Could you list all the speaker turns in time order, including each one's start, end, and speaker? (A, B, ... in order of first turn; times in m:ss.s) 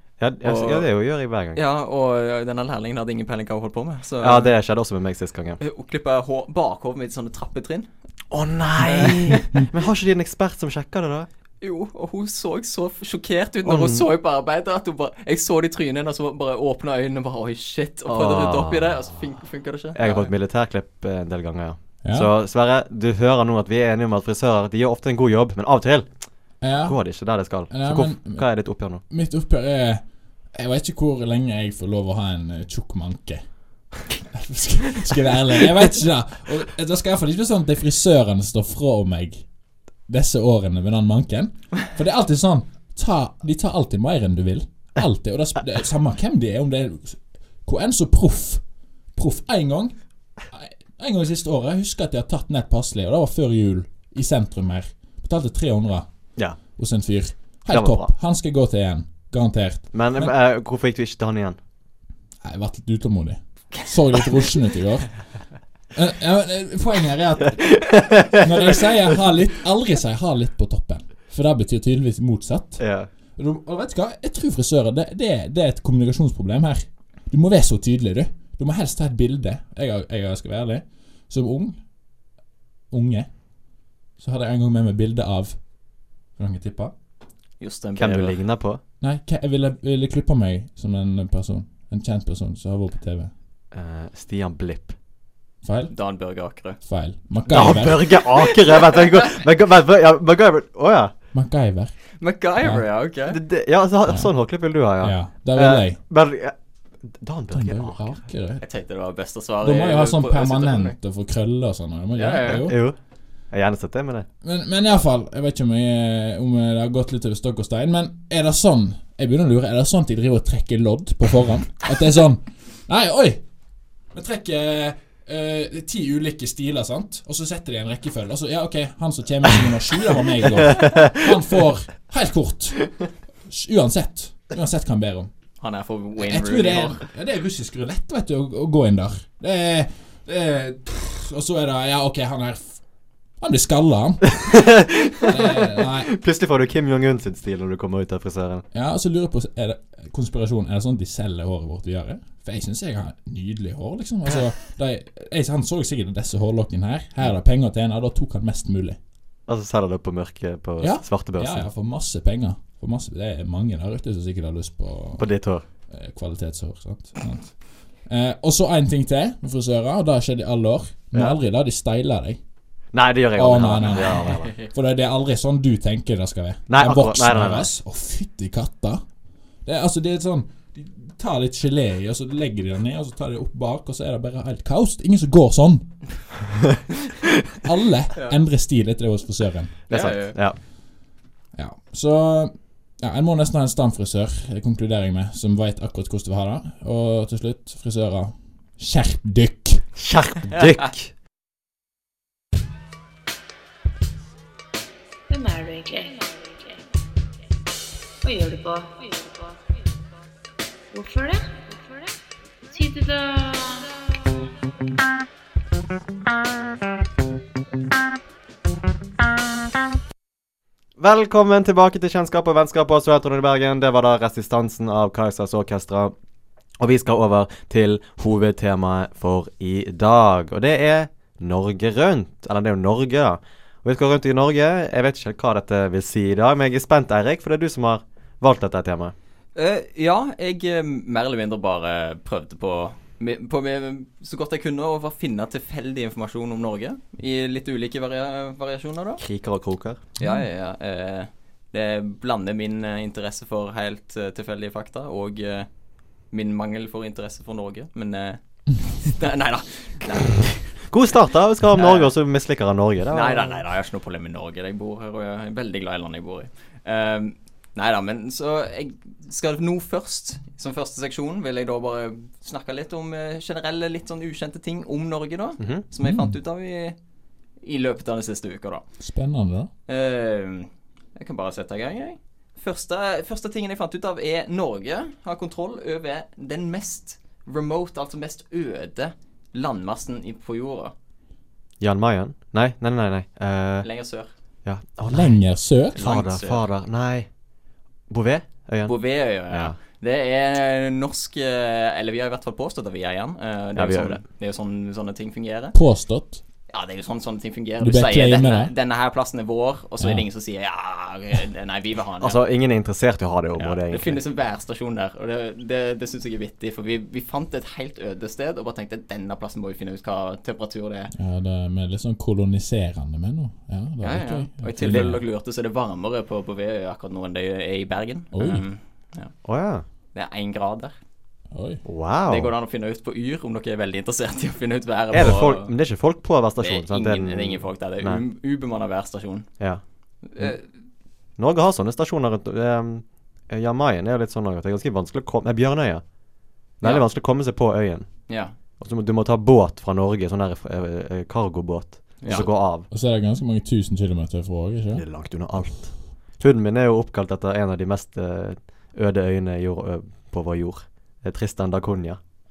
0:00.2-0:01.6 A
0:00.4-0:00.9 B
0:01.5-0:04.5 B
0:04.2-0:05.6 A
0:05.6-0:07.9 B
0:08.3-0:11.3 A
0:09.0-0:09.5 B
0:11.6-0:20.3 B
0:13.6-0:14.1 A
0:18.1-0:19.0 A
0:20.0-0:26.1 A
0:22.0-0:22.3 C
0:26.6-0:28.5 C
0:26.7-0:29.0 A
0:29.1-0:30.0 C
0:30.5-0:33.4 C
0:34.3-0:39.5 C
0:40.1-0:48.6 C
0:49.2-0:49.9 C
0:50.5-0:56.1 C
0:56.8-1:00.3 C
0:57.7-0:58.1 A
0:59.9-1:01.6 A
1:02.4-1:05.2 C
1:05.9-1:12.8 C
1:08.0-1:08.4 A
1:12.8-1:13.1 A
1:13.4-1:21.8 C
1:22.9-1:23.3 C
1:24.2-1:25.6 C
1:26.4-1:26.9 C
1:27.6-1:28.4 B
1:28.0-1:28.8 A
1:29.0-1:33.3 C
1:33.7-1:34.9 A
1:35.6-1:35.9 C
1:35.9-1:36.8 B
1:36.8-1:38.2 C
1:37.5-1:41.1 A
1:41.3-1:42.0 C
1:42.2-1:43.4 B
1:43.3-1:48.1 A
1:44.1-1:44.3 C
1:45.0-1:46.0 C
1:47.5-1:48.6 C
1:48.6-1:51.0 B
1:49.6-1:52.8 C
1:52.2-1:52.7 B
1:52.6-1:53.0 A
1:53.5-1:54.3 A
1:54.4-2:03.4 C
2:04.1-2:15.3 C
2:10.8-2:11.1 A
2:15.6-2:17.0 B
2:16.2-2:22.8 C
2:23.4-2:24.6 C
2:24.4-2:28.6 A
2:25.2-2:26.1 C
2:28.7-2:39.0 C
2:39.5-2:41.7 A
2:40.8-2:45.3 C
2:45.2-2:45.6 A
2:45.9-2:52.4 C
2:51.1-2:51.4 A
2:52.9-2:54.6 A
2:53.4-2:59.0 C
2:54.1-2:54.7 B
2:56.7-2:57.7 A
2:59.6-3:06.4 C
3:07.6-3:09.8 C
3:09.9-3:10.6 A
3:09.9-3:10.4 B
3:11.6-3:19.9 C
3:20.0-3:21.1 A
3:25.3-3:27.0 D
3:28.2-3:30.1 D
3:30.9-3:33.9 D
3:41.0-3:46.2 A
3:46.8-3:59.2 A
3:59.6-4:09.2 B
4:09.2-4:10.0 A
4:10.2-4:10.5 C
4:10.2-4:15.7 B
4:16.3-4:20.6 B
4:20.9-4:23.6 A
4:21.7-4:22.1 B
4:23.1-4:37.0 B
4:36.0-4:36.4 C
4:37.6-4:38.8 B
4:39.0-4:39.7 C
4:39.9-4:50.9 B
4:51.8-4:53.9 A
4:53.8-4:54.3 B
4:54.6-4:55.4 A
4:55.1-4:56.1 C
4:55.9-4:57.3 A
4:56.0-4:56.6 B
4:58.1-4:59.0 A
4:58.9-5:05.8 B
4:59.5-4:59.8 A
5:03.8-5:04.2 A
5:05.7-5:06.4 C
5:06.7-5:12.4 B
5:07.8-5:08.7 C
5:10.0-5:10.2 C
5:12.2-5:14.2 A
5:13.6-5:21.1 B
5:21.1-5:25.2 C
5:24.0-5:29.3 B
5:24.8-5:25.1 A
5:28.3-5:28.6 C
5:29.4-5:29.8 A
5:30.2-5:31.0 B
5:31.5-5:31.8 C
5:31.8-5:32.5 A
5:32.3-5:35.7 B
5:35.1-5:38.2 A
5:36.6-5:39.5 B
5:40.2-5:40.7 B
5:41.4-5:46.0 A
5:46.8-5:48.2 A
5:48.3-5:48.6 B
5:48.8-5:52.9 A
5:52.2-5:52.5 B
5:52.3-5:55.0 C
5:55.0-6:02.2 A